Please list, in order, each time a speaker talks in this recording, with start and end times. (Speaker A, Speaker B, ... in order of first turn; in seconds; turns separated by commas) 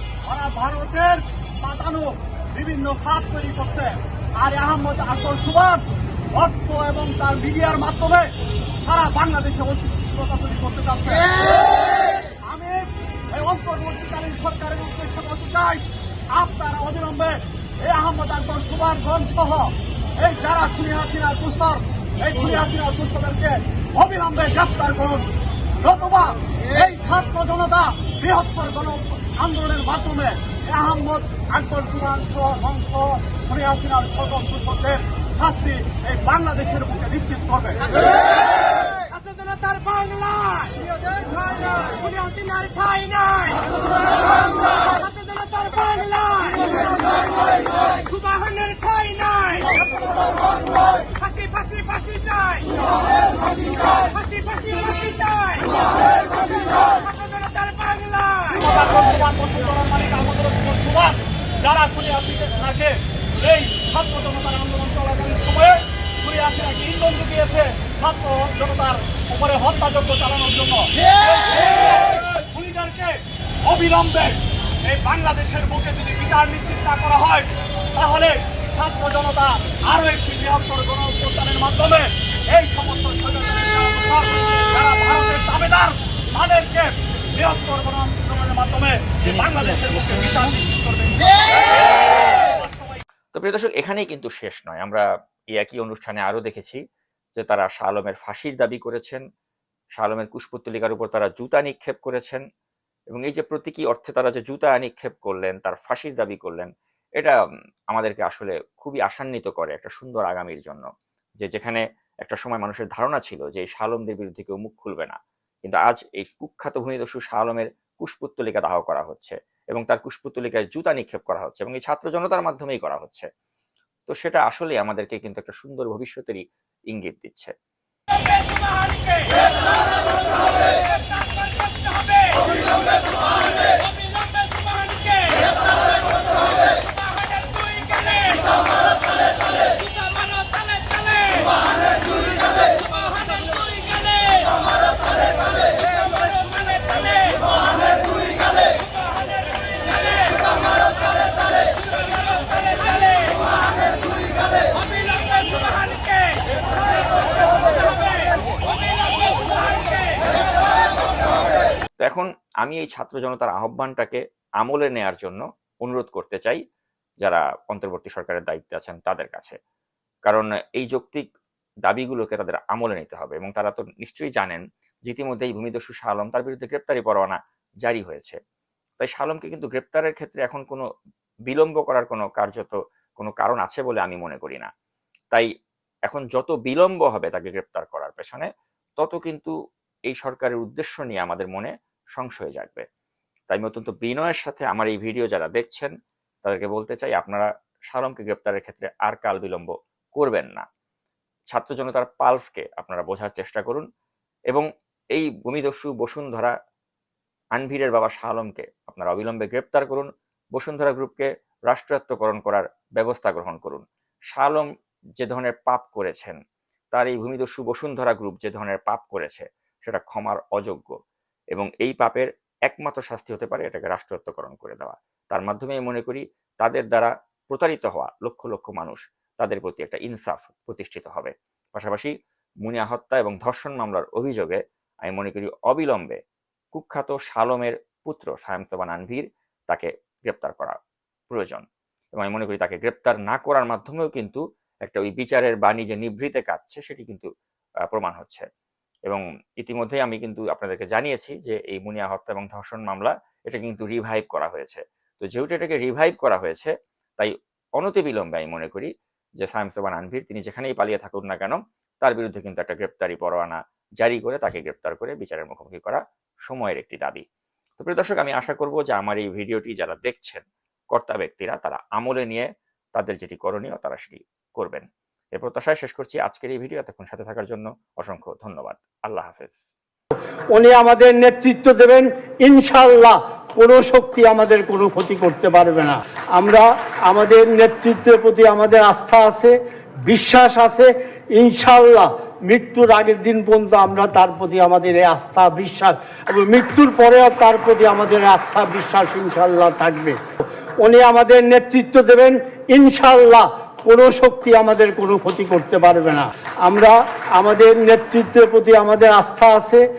Speaker A: 0.2-25.3, Speaker A: 25.8-38.2, Speaker B: 39.2-40.6, Speaker A: 40.2-42.4, Speaker B: 42.2-43.6, Speaker B: 45.0-46.5, Speaker A: 46.5-46.8, Speaker B: 48.1-49.7, Speaker B: 51.2-52.6, Speaker A: 53.6-54.1, Speaker B: 54.2-55.7, Speaker A: 55.7-57.0, Speaker B: 57.4-58.4, Speaker A: 58.3-93.0, Speaker C: 93.3-96.8, Speaker C: 97.4-99.2, Speaker C: 100.0-102.4, Speaker C: 103.1-107.4, Speaker C: 107.9-110.9, Speaker C: 111.4-123.3, Speaker C: 124.1-127.5, Speaker B: 131.7-132.4, Speaker B: 134.0-135.4, Speaker B: 137.3-137.8, Speaker B: 140.2-141.4, Speaker B: 143.7-144.2, Speaker C: 162.0-166.6, Speaker C: 167.2-169.6, Speaker C: 170.3-171.3, Speaker C: 171.8-178.4, Speaker C: 179.0-180.8, Speaker C: 181.5-184.7, Speaker C: 186.1-189.5, Speaker C: 190.1-192.8, Speaker C: 193.5-195.9, Speaker C: 196.4-200.7, Speaker C: 201.5-203.8, Speaker C: 204.5-206.5, Speaker C: 207.6-214.7, Speaker C: 215.2-216.4, Speaker C: 216.9-220.9, Speaker C: 221.5-232.1, Speaker C: 232.6-236.2, Speaker C: 236.7-240.8, Speaker C: 241.3-247.3, Speaker C: 247.9-248.4, Speaker C: 249.1-267.2, Speaker C: 267.8-279.6, Speaker D: 280.5-289.5, Speaker D: 290.1-300.2, Speaker D: 300.8-309.8